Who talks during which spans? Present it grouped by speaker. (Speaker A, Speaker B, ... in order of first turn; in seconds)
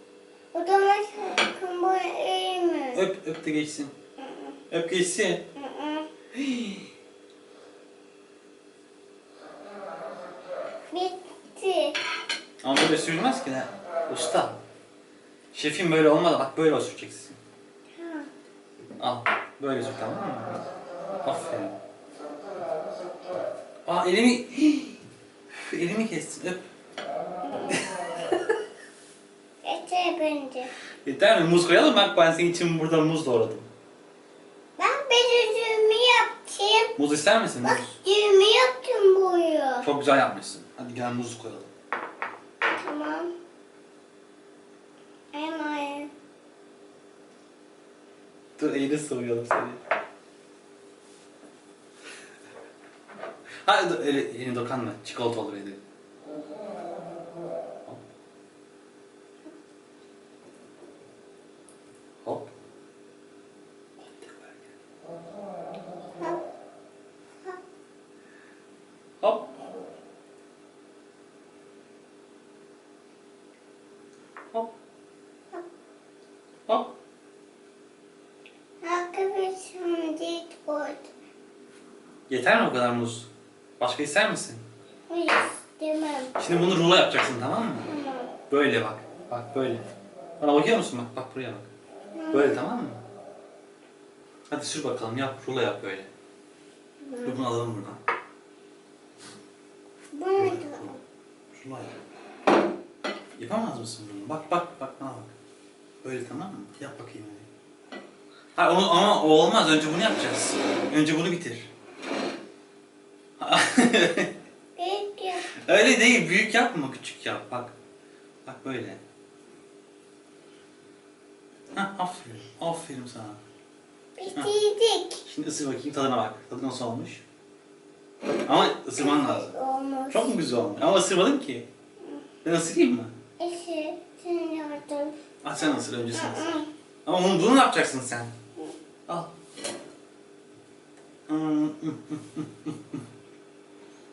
Speaker A: 0.5-3.0, 4.2-4.6, 5.5-6.1, 10.9-12.0, 17.9-18.3, 27.4-27.9, 29.6-30.7, 34.8-36.9, 37.6-39.9, 42.7-43.3, 45.3-46.1, 78.8-81.1, 85.1-86.3, 87.8-88.3, 92.2-92.6, 97.0-97.4, 100.1-101.0, 114.8-115.5, 124.2-125.2, 128.9-130.3, 133.4-136.7
Speaker B: 2.9-3.9, 4.7-5.4, 6.4-6.7, 12.6-14.6, 15.5-17.4, 19.0-20.6, 21.2-21.7, 23.9-25.0, 25.5-26.6, 27.7-28.4, 31.0-33.7, 37.0-38.0, 39.8-41.7, 48.6-49.8, 53.6-55.8, 62.2-62.5, 64.0-64.7, 69.2-69.6, 82.3-84.6, 86.4-87.9, 88.5-89.8, 90.4-91.7, 92.3-93.0, 94.5-96.1, 97.2-98.0, 100.4-101.0, 101.5-101.9, 103.3-105.3, 106.0-107.5, 108.5-111.7, 113.4-114.3, 115.5-117.7, 118.4-119.0, 121.7-123.4, 125.2-127.2, 128.4-129.5, 130.1-131.7, 132.4-133.1, 135.4-136.5, 137.1-138.3, 141.3-143.0